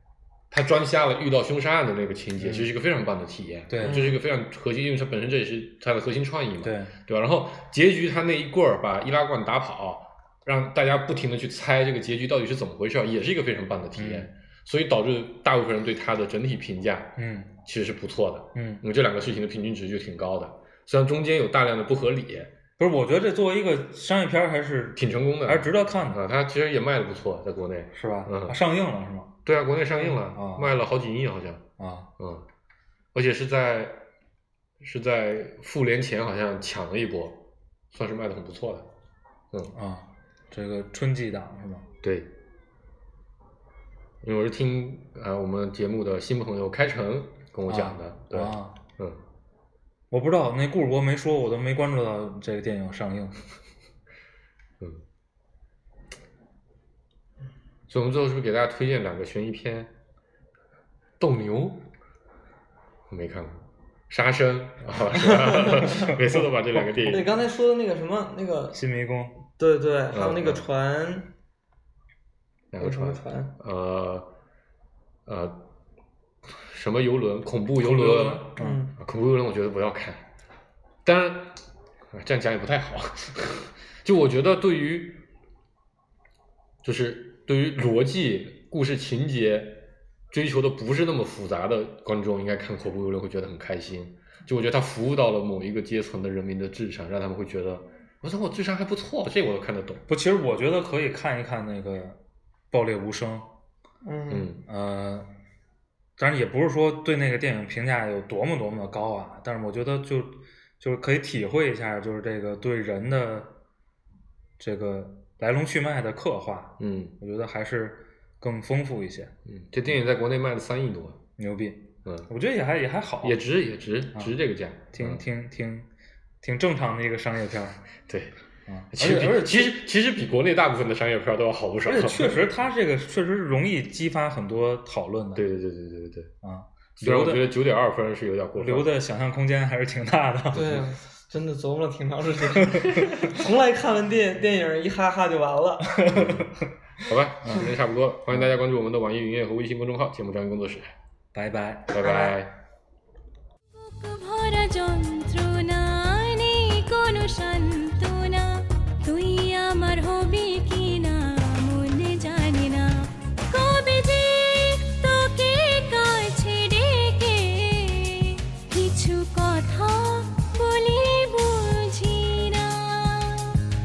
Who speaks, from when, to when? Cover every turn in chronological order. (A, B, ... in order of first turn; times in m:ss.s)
0:00.5-0:22.5 A
0:02.4-0:02.7 B
0:03.7-0:04.1 B
0:03.8-0:04.2 C
0:06.6-0:06.9 B
0:14.0-0:14.3 B
0:17.2-0:17.5 B
0:18.5-0:18.8 B
0:22.8-0:26.2 B
0:25.0-0:28.6 A
0:27.9-0:29.4 B
0:29.4-0:31.7 A
0:30.0-0:30.8 B
0:31.8-0:32.1 B
0:32.2-0:32.4 A
0:33.1-0:34.0 A
0:34.8-0:38.9 A
0:39.7-0:41.8 B
0:42.0-0:42.3 A
0:44.2-0:49.2 A
0:47.7-0:48.8 B
0:50.1-0:53.4 B
0:57.9-0:59.9 A
1:01.2-1:01.9 A
1:03.1-1:07.3 A
1:05.2-1:06.1 C
1:06.2-1:06.8 B
1:07.0-1:08.8 C
1:08.7-1:09.4 B
1:09.6-1:11.3 C
1:10.1-1:10.6 A
1:12.7-1:14.3 A
1:12.8-1:13.5 C
1:15.2-1:15.6 A
1:16.5-1:20.2 A
1:17.8-1:18.9 C
1:18.0-1:18.8 B
1:21.0-1:21.6 A
1:22.1-1:25.3 A
1:26.8-1:40.0 A
1:40.1-1:42.2 B
1:42.7-1:43.5 B
1:44.0-1:44.5 C
1:44.3-1:44.6 A
1:44.7-1:45.3 B
1:46.2-1:53.5 B
1:54.6-1:59.3 B
1:56.8-1:57.1 A
1:59.4-2:01.2 A
2:01.4-2:03.4 B
2:03.2-2:05.2 A
2:04.9-2:05.9 B
2:06.4-2:07.8 B
2:08.1-2:08.3 A
2:08.7-2:09.8 B
2:08.9-2:12.4 A
2:11.8-2:15.4 B
2:15.3-2:16.3 A
2:16.4-2:17.5 B
2:17.0-2:18.9 A
2:18.6-2:20.8 B
2:20.5-2:25.9 C
2:22.7-2:23.0 B
2:25.9-2:26.5 B
2:26.1-2:30.9 A
2:27.4-2:27.7 B
2:31.3-2:32.3 B
2:31.9-2:32.5 A
2:32.0-2:32.3 C
2:33.7-2:53.6 D